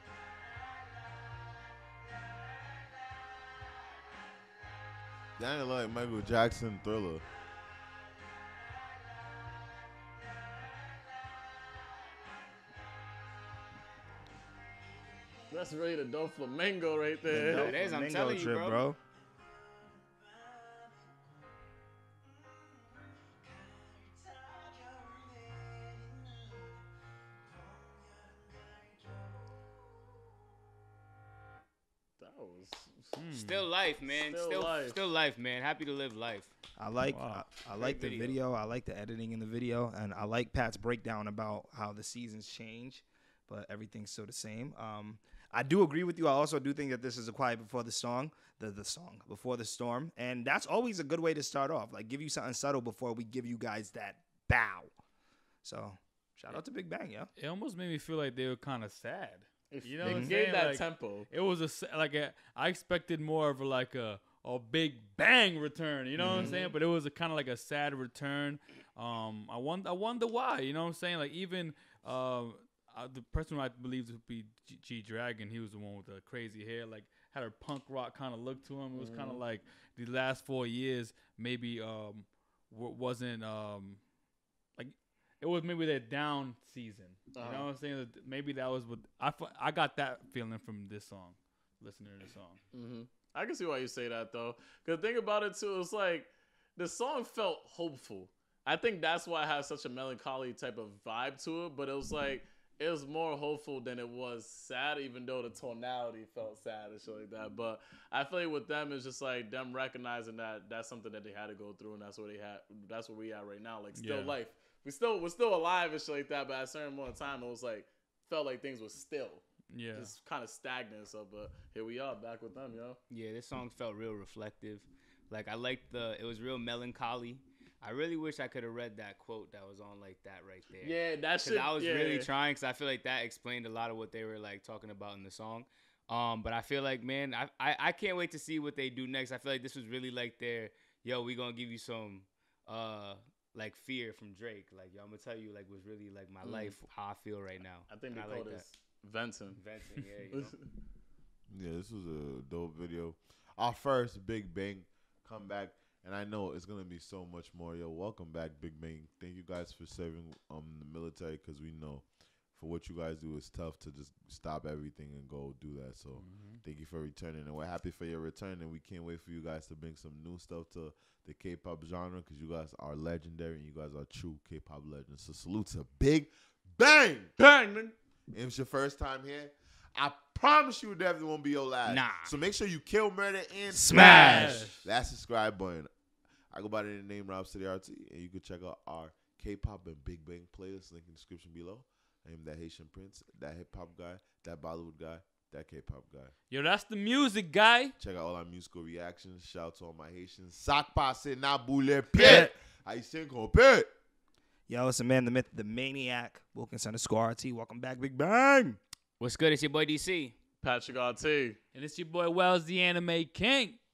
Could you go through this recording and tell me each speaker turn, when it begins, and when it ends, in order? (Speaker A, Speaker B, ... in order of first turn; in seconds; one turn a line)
Speaker A: 5.4-7.2
Speaker B: 15.5-17.8
Speaker C: 17.3-19.0
Speaker D: 17.4-18.9
Speaker B: 32.2-33.2
Speaker E: 33.1-33.7
Speaker D: 33.3-36.5
Speaker B: 34.1-35.1
Speaker C: 36.8-54.9
Speaker E: 37.1-37.5
Speaker D: 37.8-38.4
Speaker C: 55.6-57.3
Speaker E: 57.4-84.0
Speaker B: 59.7-61.3
Speaker C: 60.0-60.3
Speaker C: 66.2-66.5
Speaker B: 66.3-66.7
Speaker B: 79.0-79.4
Speaker E: 84.8-92.6
Speaker B: 87.3-87.7
Speaker B: 92.7-123.0
Speaker E: 113.9-114.4
Speaker E: 119.7-120.1
Speaker D: 123.1-148.7
Speaker B: 130.8-132.3
Speaker B: 146.4-146.7
Speaker B: 147.9-149.6
Speaker D: 149.5-150.5
Speaker B: 150.3-150.6
Speaker A: 151.5-177.4
Speaker E: 166.2-166.6
Speaker B: 177.4-177.9
Speaker A: 178.3-185.9
Speaker D: 181.8-182.4
Speaker C: 183.7-184.7
Speaker E: 183.9-184.8
Speaker A: 186.5-196.3
Speaker E: 196.5-198.0
Speaker A: 198.0-203.9
Speaker C: 202.2-202.5
Speaker C: 204.7-208.8
Speaker D: 209.2-210.3
Speaker B: 210.6-211.6
Speaker E: 211.7-213.8